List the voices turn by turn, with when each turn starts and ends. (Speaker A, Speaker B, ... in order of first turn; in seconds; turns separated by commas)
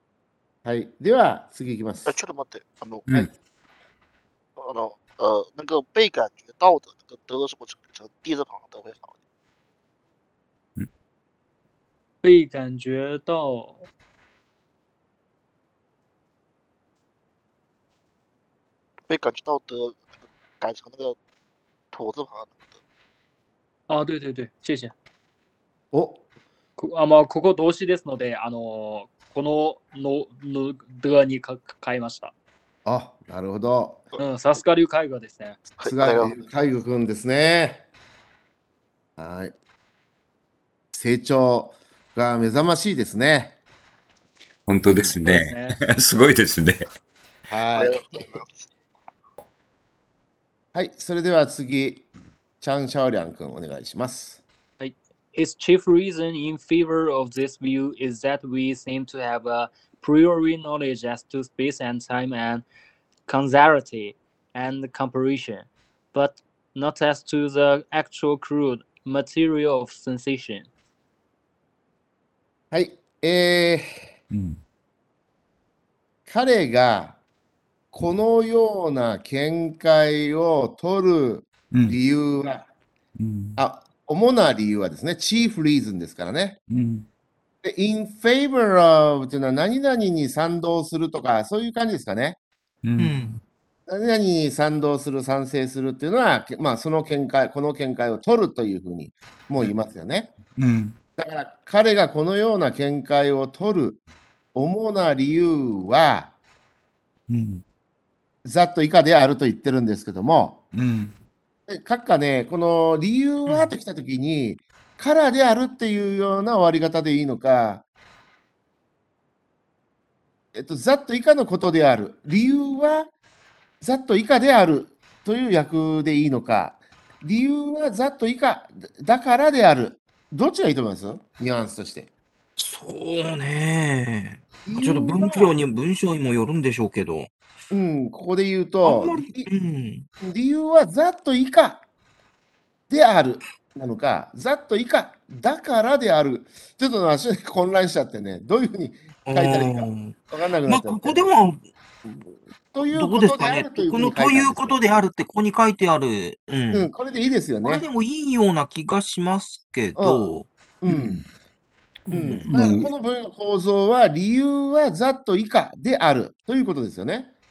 Speaker A: 0.6-2.1, Speaker B: 2.0-3.1, Speaker B: 4.6-9.2, Speaker C: 12.2-13.9, Speaker B: 19.1-21.2, Speaker B: 21.9-22.8, Speaker C: 23.9-24.9, Speaker A: 25.9-26.2, Speaker C: 26.8-32.3, Speaker A: 32.9-34.0, Speaker C: 34.2-35.6, Speaker B: 35.8-36.4, Speaker A: 35.8-37.8, Speaker A: 39.2-39.5, Speaker A: 40.9-43.5, Speaker D: 44.7-46.8, Speaker C: 45.2-45.8, Speaker A: 47.5-48.4, Speaker B: 47.7-48.6, Speaker A: 50.7-52.0, Speaker A: 52.6-54.4, Speaker C: 54.8-62.6, Speaker C: 63.3-70.7, Speaker A: 72.7-74.1, Speaker D: 74.3-74.6, Speaker A: 76.3-77.2, Speaker A: 77.9-82.7, Speaker D: 81.7-82.0, Speaker D: 83.2-83.6, Speaker A: 83.6-86.6, Speaker D: 86.7-87.0, Speaker A: 87.6-92.4, Speaker D: 92.8-93.4, Speaker E: 93.0-93.3, Speaker A: 93.9-100.3, Speaker D: 100.6-101.0, Speaker A: 101.2-104.0, Speaker A: 104.5-106.3, Speaker D: 107.3-107.6, Speaker A: 108.4-110.6, Speaker D: 110.7-111.2, Speaker A: 111.7-117.8, Speaker A: 120.5-123.1, Speaker A: 123.8-132.1, Speaker E: 132.6-137.3, Speaker A: 134.7-135.5, Speaker A: 137.7-139.5, Speaker E: 138.8-140.1, Speaker A: 140.2-141.8, Speaker A: 142.9-151.3, Speaker E: 149.3-150.1, Speaker E: 150.7-151.6, Speaker A: 152.0-154.8, Speaker E: 152.9-156.9, Speaker A: 156.7-157.8, Speaker E: 157.6-160.5, Speaker A: 159.9-161.2, Speaker E: 162.1-162.5, Speaker A: 162.1-167.3, Speaker D: 162.5-162.9